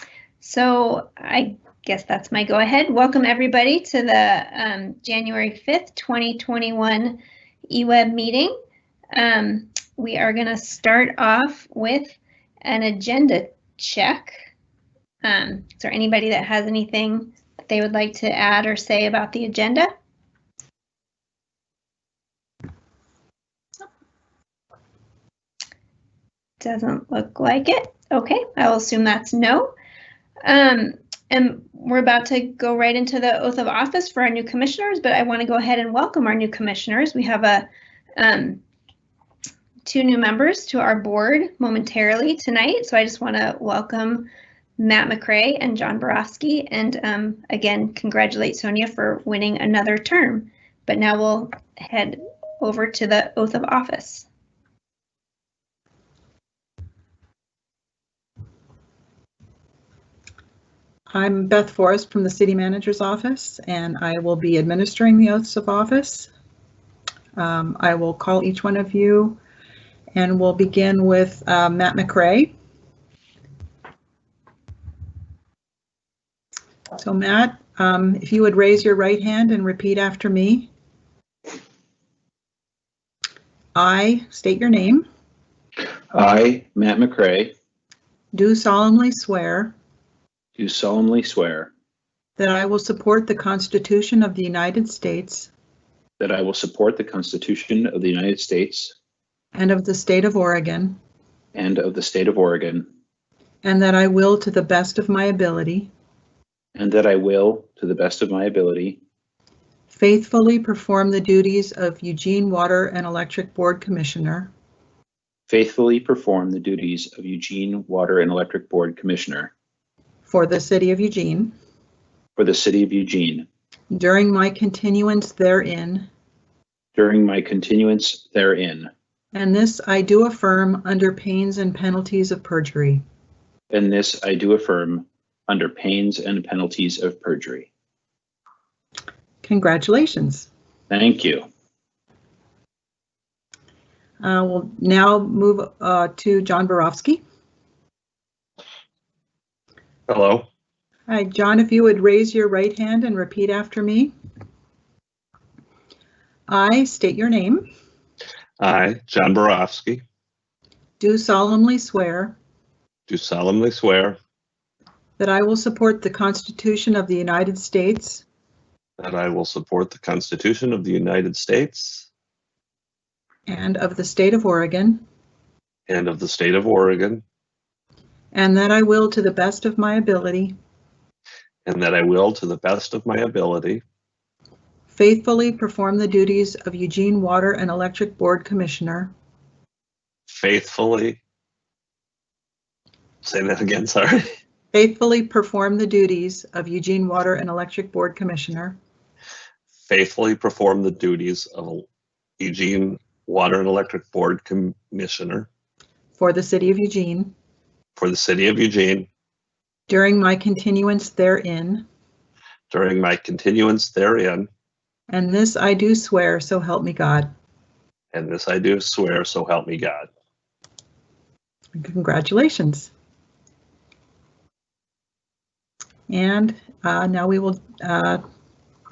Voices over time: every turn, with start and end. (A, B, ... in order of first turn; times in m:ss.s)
0:00.4-0:08.5 A
0:09.2-0:14.4 A
0:15.2-0:19.9 A
0:26.6-0:29.7 A
0:30.4-0:38.6 A
0:39.9-0:54.3 A
1:01.1-1:06.3 B
1:07.4-1:09.4 B
1:10.1-1:12.5 B
1:17.0-1:20.7 B
1:23.8-1:25.0 B
1:26.1-1:27.5 C
1:28.3-1:29.7 B
1:30.6-1:31.7 C
1:32.4-1:35.5 B
1:36.2-1:38.9 C
1:39.5-1:41.0 B
1:41.5-1:42.9 C
1:43.6-1:45.9 B
1:46.8-1:49.0 C
1:49.9-1:54.5 B
1:55.5-1:59.5 C
2:00.3-2:01.6 B
2:02.4-2:03.5 C
2:03.9-2:06.1 B
2:07.0-2:08.9 C
2:09.3-2:13.0 B
2:13.7-2:17.7 C
2:19.4-2:20.5 B
2:20.9-2:21.5 C
2:24.2-2:27.2 B
2:30.1-2:30.5 D
2:31.1-2:34.1 B
2:36.5-2:37.7 B
2:38.6-2:40.0 D
2:41.0-2:42.4 B
2:43.1-2:44.2 D
2:45.2-2:48.2 B
2:49.0-2:52.1 D
2:53.5-2:55.0 B
2:55.9-2:57.2 D
2:58.3-3:00.6 B
3:01.6-3:03.8 D
3:04.9-3:09.1 B
3:10.3-3:11.2 D
3:13.2-3:14.3 D
3:14.7-3:18.8 B
3:19.8-3:21.9 D
3:22.4-3:25.5 D
3:26.2-3:27.3 B
3:28.0-3:29.1 D
3:29.9-3:31.8 B
3:32.7-3:34.5 D
3:35.1-3:37.3 B
3:38.1-3:40.1 D
3:41.8-3:42.9 B
3:46.1-3:48.2 B